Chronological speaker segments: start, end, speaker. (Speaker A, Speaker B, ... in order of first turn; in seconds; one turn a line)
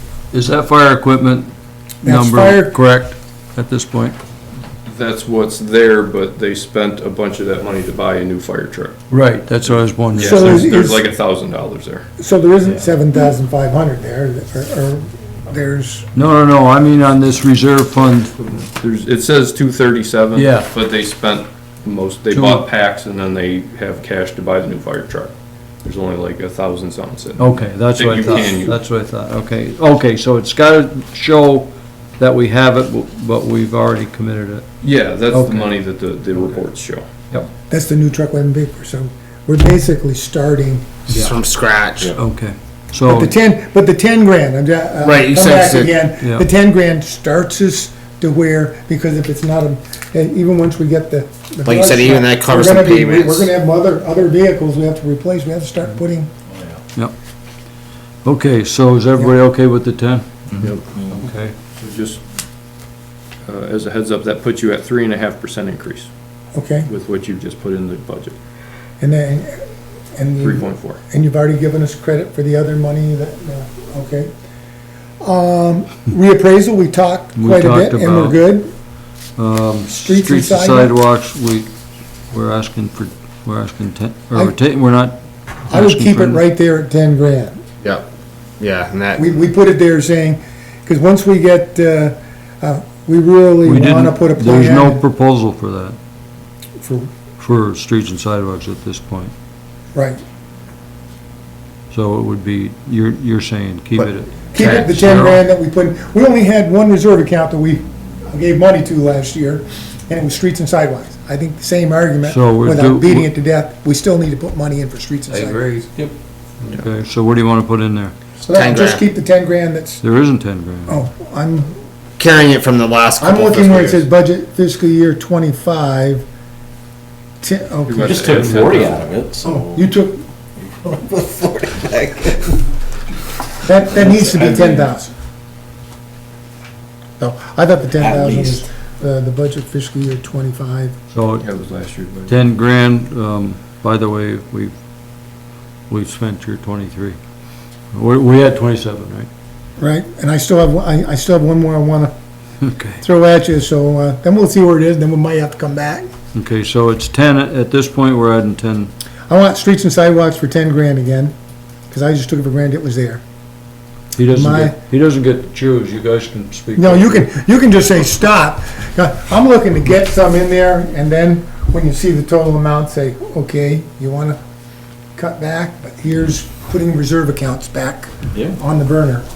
Speaker A: 0.3-1.5
Speaker B: 2.0-2.8
Speaker A: 2.0-4.2
Speaker C: 4.9-9.0
Speaker A: 9.1-10.7
Speaker C: 9.7-12.1
Speaker B: 10.1-11.0
Speaker B: 12.2-16.1
Speaker A: 16.1-18.3
Speaker C: 18.4-25.3
Speaker A: 20.4-20.7
Speaker A: 22.3-22.7
Speaker C: 25.8-28.8
Speaker A: 27.4-34.7
Speaker C: 34.8-37.1
Speaker A: 35.3-35.8
Speaker B: 37.7-41.0
Speaker D: 41.1-42.1
Speaker A: 42.1-43.3
Speaker B: 43.1-56.3
Speaker D: 45.0-46.0
Speaker A: 46.2-46.5
Speaker D: 51.6-53.5
Speaker E: 56.5-56.8
Speaker A: 58.2-61.5
Speaker E: 60.5-61.2
Speaker C: 61.8-62.2
Speaker C: 63.5-66.1
Speaker B: 66.5-66.9
Speaker C: 66.9-68.4
Speaker B: 69.0-69.6
Speaker B: 70.2-74.3
Speaker C: 70.4-71.0
Speaker B: 75.2-78.7
Speaker A: 77.4-78.4
Speaker A: 79.4-81.7
Speaker B: 79.9-81.0
Speaker A: 82.3-86.4
Speaker B: 85.7-87.6
Speaker D: 88.6-89.2
Speaker B: 89.2-95.0
Speaker A: 93.7-96.0
Speaker B: 96.8-97.1
Speaker A: 97.4-99.3
Speaker B: 100.0-100.2
Speaker A: 101.9-105.4
Speaker B: 104.5-115.7
Speaker A: 112.2-113.3
Speaker C: 115.3-116.1
Speaker A: 116.6-118.1
Speaker B: 118.4-120.0
Speaker D: 118.5-119.1
Speaker A: 120.0-121.0
Speaker B: 120.9-121.8
Speaker D: 122.2-124.0
Speaker B: 123.2-126.2
Speaker B: 127.4-128.4
Speaker C: 127.8-129.1
Speaker E: 128.0-129.9
Speaker B: 129.4-130.2
Speaker E: 130.6-132.7
Speaker B: 133.6-135.1
Speaker D: 134.2-134.9
Speaker E: 134.4-134.8
Speaker B: 137.2-141.0
Speaker E: 138.0-138.7
Speaker A: 141.1-141.4
Speaker C: 141.4-142.3
Speaker A: 142.3-144.7
Speaker A: 145.9-147.2
Speaker A: 147.9-149.3
Speaker B: 149.8-152.2
Speaker A: 152.6-153.0
Speaker B: 153.0-156.1
Speaker A: 156.3-158.9
Speaker B: 159.3-161.3
Speaker B: 161.9-163.2
Speaker A: 164.1-167.3
Speaker B: 164.3-164.8
Speaker B: 166.8-174.4
Speaker B: 175.2-179.3
Speaker E: 178.3-178.6